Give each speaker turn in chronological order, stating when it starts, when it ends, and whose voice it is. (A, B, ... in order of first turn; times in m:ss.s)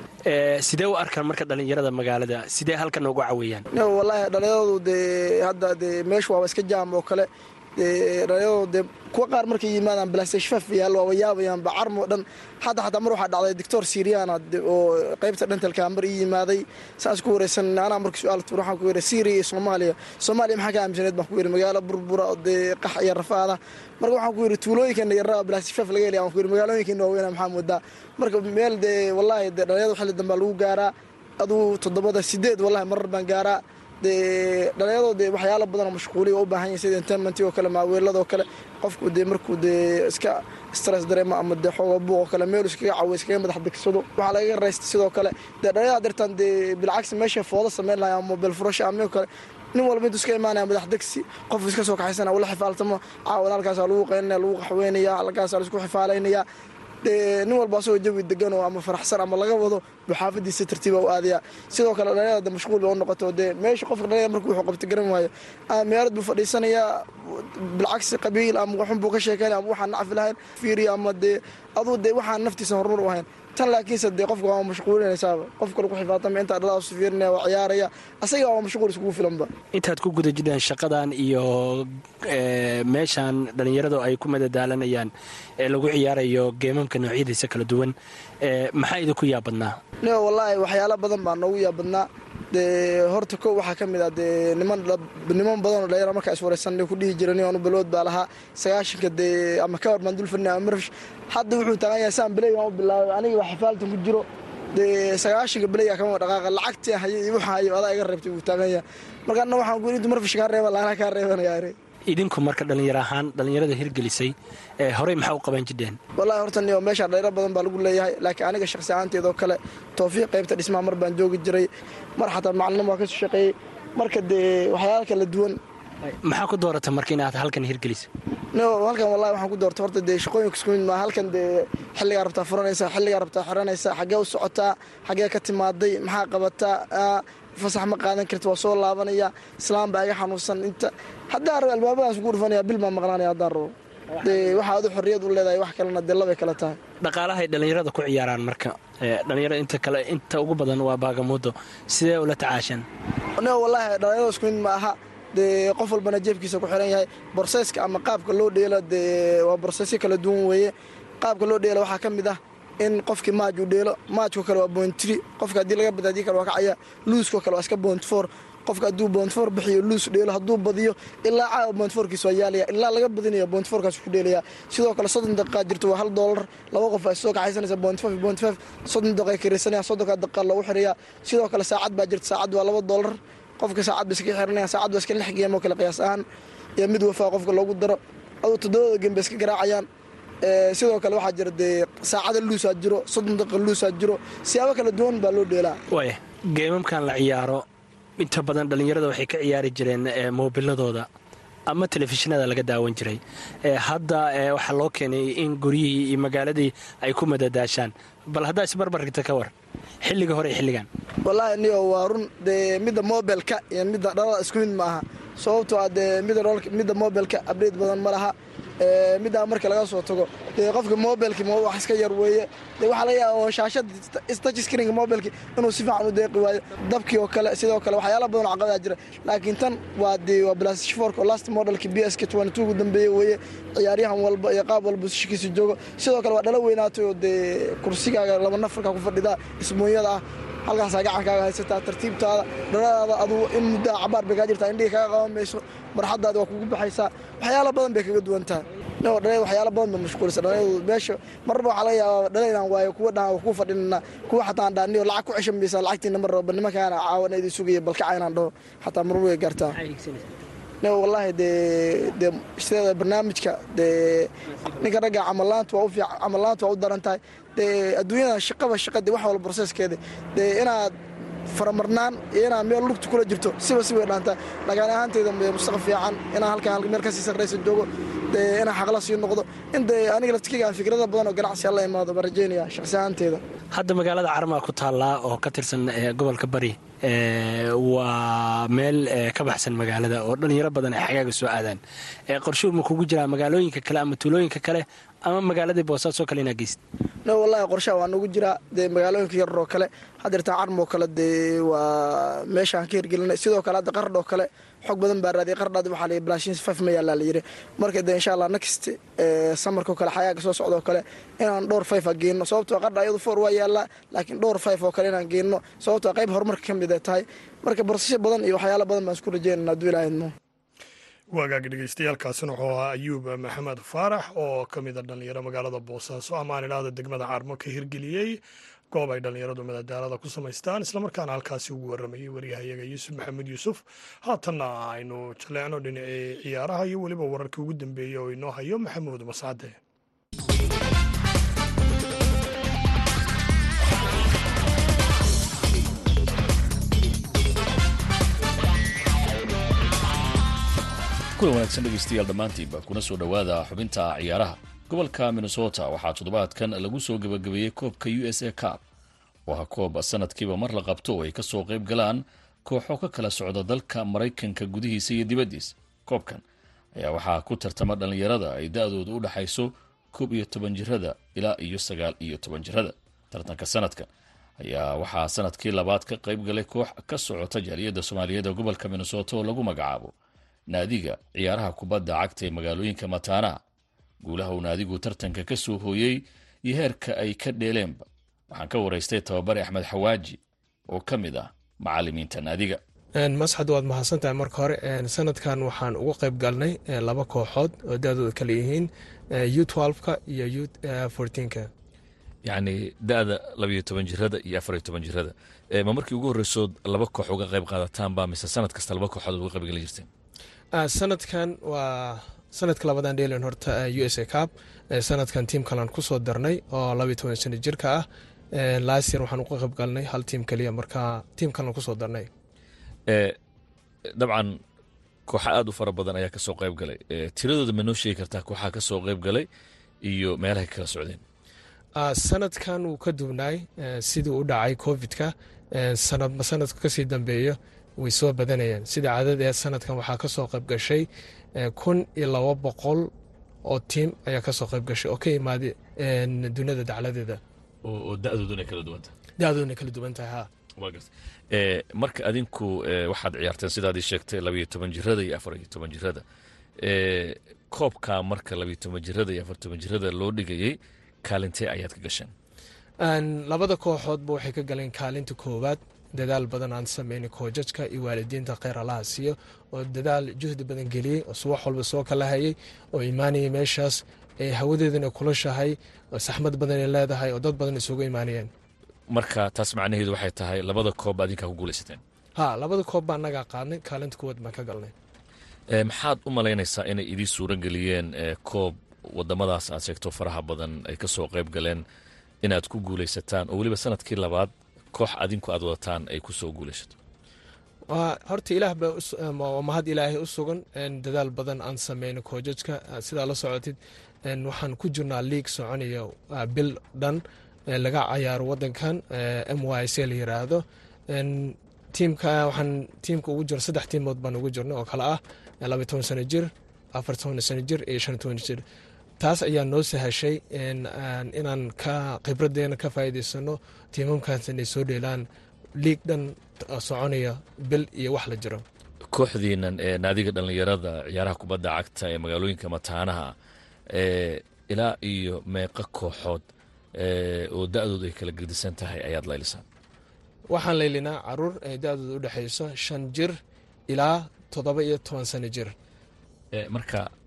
0:00.3-0:03.6 A
0:03.7-0:56.4 B
0:57.0-1:19.5 B
1:19.7-1:29.8 A
1:30.0-1:51.8 B
1:52.1-1:56.0 A
1:56.2-2:05.6 B
2:06.0-2:08.1 A
2:08.5-2:26.8 B
2:24.1-2:24.6 A
2:27.0-2:32.8 A
2:33.4-3:06.2 B
3:06.8-3:09.9 B
3:10.4-3:15.8 B
3:15.9-3:17.6 A
3:18.2-3:21.1 A
3:21.7-3:29.5 A
3:30.0-3:30.9 A
3:31.2-4:19.8 B
4:19.7-4:20.3 A
4:20.8-4:30.9 B
4:31.5-4:43.4 B
4:43.7-4:56.8 A
4:57.2-5:20.3 B
5:21.3-5:28.4 C
5:28.9-5:39.8 C
5:51.4-5:58.8 D
5:59.5-6:06.4 D
6:07.0-6:14.1 D
6:14.6-6:20.1 D
6:20.7-6:23.5 D
6:24.2-6:32.8 D
6:33.2-6:41.7 E
6:42.4-6:50.1 D
6:50.7-7:02.3 E
7:03.1-7:03.4 D
7:04.2-7:04.6 D
7:05.3-7:09.4 D
7:10.0-7:11.2 D
7:12.0-7:23.1 E
7:23.6-7:27.4 E
7:27.8-7:29.1 D
7:29.4-7:30.5 E
7:30.8-7:36.2 D
7:36.8-7:42.3 D
7:43.0-7:58.5 E
7:59.1-8:02.0 D
8:02.4-8:04.9 E
8:05.7-8:11.8 D
8:12.4-8:16.9 D
8:17.9-8:38.6 E
8:39.2-8:45.2 E
8:45.8-8:48.6 E
8:49.1-8:53.3 D
8:53.9-8:56.4 D
8:57.0-8:59.6 D
9:00.5-9:03.4 E
9:03.9-9:05.7 E
9:06.5-9:07.1 D